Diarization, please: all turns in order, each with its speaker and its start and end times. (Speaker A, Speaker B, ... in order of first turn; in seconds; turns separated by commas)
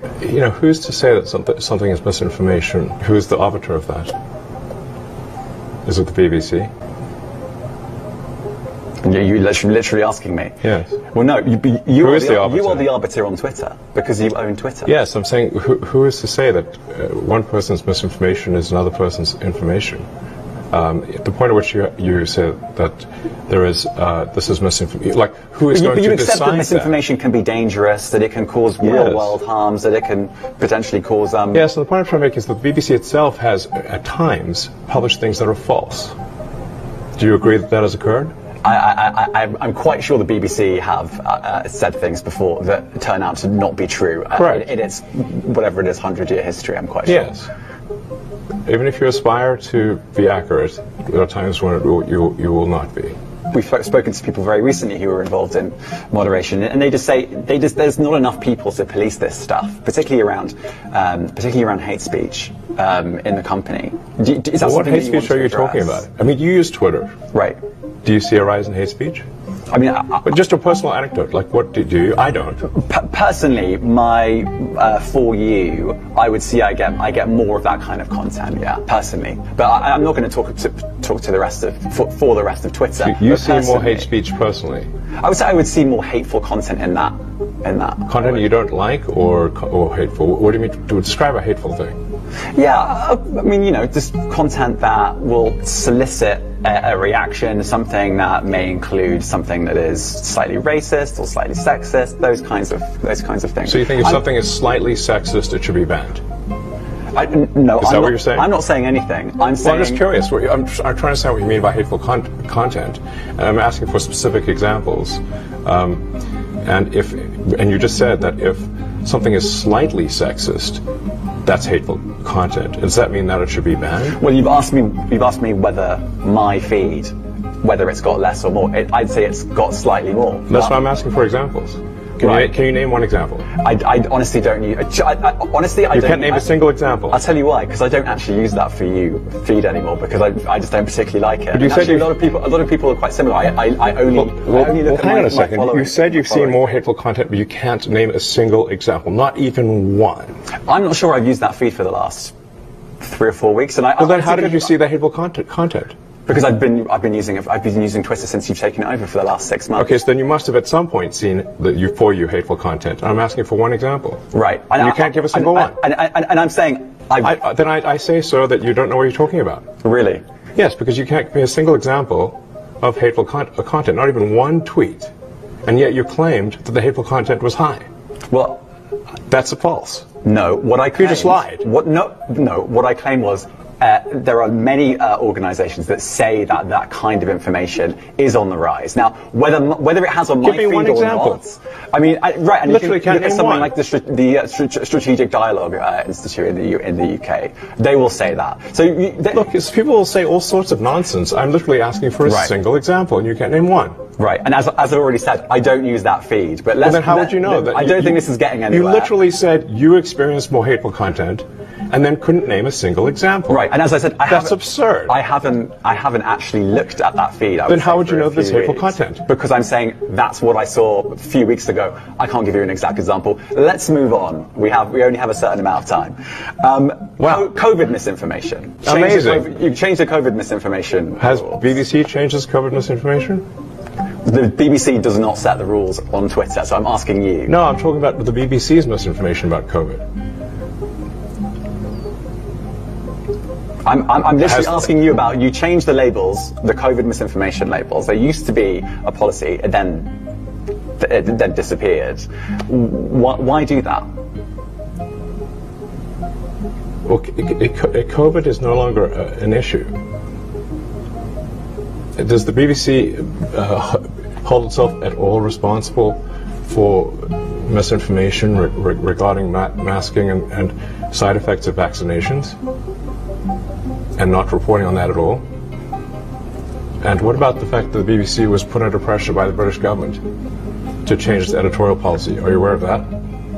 Speaker A: 0.2-4.1, Speaker A: 5.8-6.7, Speaker B: 9.0-10.5, Speaker A: 10.6-11.0, Speaker B: 11.1-14.9, Speaker A: 12.0-12.9, Speaker A: 14.8-20.1, Speaker A: 20.7-26.9, Speaker B: 25.7-31.6, Speaker A: 28.8-29.3, Speaker A: 31.5-36.1, Speaker A: 37.2-38.3, Speaker B: 38.6-47.3, Speaker A: 44.4-44.7, Speaker A: 47.1-47.5, Speaker A: 48.6-53.1, Speaker B: 53.5-66.0, Speaker A: 64.6-67.1, Speaker B: 67.3-67.6, Speaker A: 68.0-69.2, Speaker B: 69.7-70.3, Speaker A: 70.2-72.7, Speaker B: 72.6-84.1, Speaker A: 83.0-84.9, Speaker B: 85.2-88.4, Speaker A: 88.1-92.0, Speaker B: 92.5-104.2, Speaker A: 103.6-106.2, Speaker B: 107.1-110.0, Speaker A: 107.8-108.5, Speaker A: 109.6-116.1, Speaker A: 116.6-120.8, Speaker A: 121.4-124.2, Speaker B: 124.2-130.7, Speaker A: 130.5-133.5, Speaker B: 132.2-132.5, Speaker B: 133.5-136.6, Speaker A: 135.9-137.2, Speaker B: 137.1-146.7, Speaker A: 141.5-142.1, Speaker A: 144.1-150.3, Speaker B: 150.7-152.3, Speaker B: 153.0-154.7, Speaker A: 154.0-155.9, Speaker B: 156.3-159.9, Speaker A: 159.8-164.2, Speaker B: 164.3-167.4, Speaker A: 164.8-165.8, Speaker A: 167.2-169.7, Speaker B: 169.8-170.2, Speaker A: 170.6-175.1, Speaker A: 175.6-177.8, Speaker B: 178.3-178.6, Speaker A: 179.3-180.1, Speaker B: 180.2-199.5, Speaker A: 181.0-181.6, Speaker A: 190.4-191.4, Speaker A: 192.6-193.7, Speaker A: 199.3-203.9, Speaker B: 202.2-202.5, Speaker B: 204.2-209.1, Speaker A: 206.8-213.7, Speaker B: 213.5-231.8, Speaker A: 214.3-215.1, Speaker A: 217.7-219.2, Speaker A: 228.8-229.4, Speaker A: 231.2-233.4, Speaker B: 234.2-237.5, Speaker A: 237.5-240.0, Speaker B: 243.8-250.1, Speaker A: 244.4-244.9, Speaker B: 251.0-254.1, Speaker A: 257.1-259.9, Speaker A: 262.2-272.6, Speaker A: 274.2-275.4, Speaker A: 277.0-280.2, Speaker A: 281.0-283.1